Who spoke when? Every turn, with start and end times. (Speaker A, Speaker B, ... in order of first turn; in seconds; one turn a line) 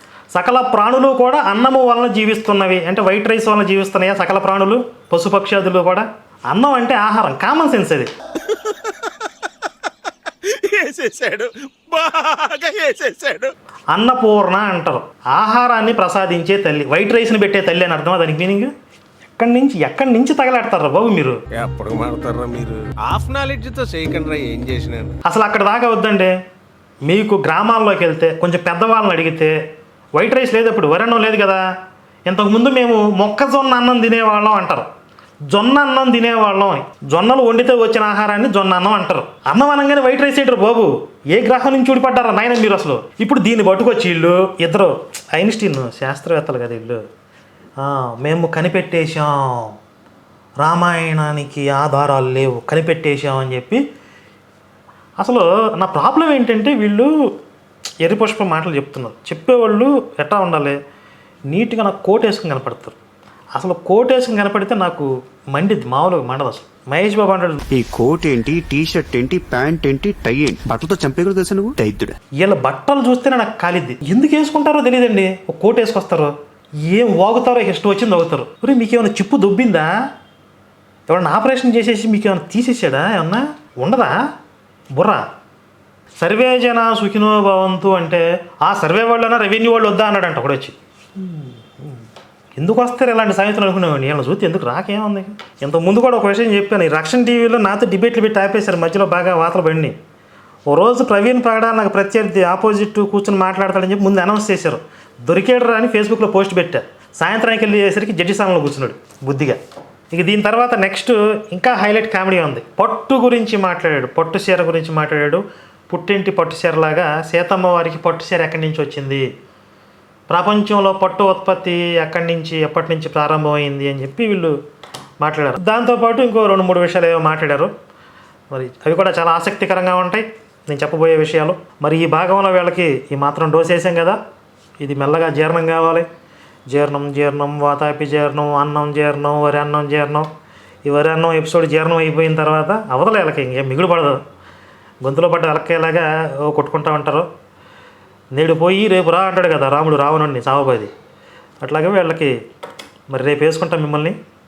Speaker A: 0.3-8.1
Speaker B: 8.5-9.3
Speaker B: 10.3-13.5
Speaker A: 13.9-18.7
Speaker A: 19.4-21.4
Speaker B: 21.5-25.2
Speaker A: 25.3-26.3
Speaker A: 27.1-29.5
Speaker A: 30.2-31.6
Speaker A: 32.3-34.9
Speaker A: 35.5-47.0
Speaker A: 47.8-49.8
Speaker A: 50.6-53.8
Speaker A: 55.2-57.1
Speaker A: 58.0-60.8
Speaker A: 61.5-63.0
Speaker A: 63.5-67.6
Speaker C: 67.7-72.2
Speaker A: 72.4-76.3
Speaker A: 76.9-79.9
Speaker A: 81.1-84.2
Speaker A: 85.0-85.2
Speaker A: 86.2-92.0
Speaker A: 92.6-100.0
Speaker A: 100.7-109.6
Speaker A: 110.1-119.2
Speaker A: 120.3-124.5
Speaker A: 125.2-127.7
Speaker A: 128.5-134.2
Speaker A: 134.8-136.1
Speaker A: 136.7-140.3
Speaker A: 140.8-144.2
Speaker A: 145.0-147.3
Speaker A: 148.3-150.9
Speaker A: 151.6-152.3
Speaker A: 153.1-154.2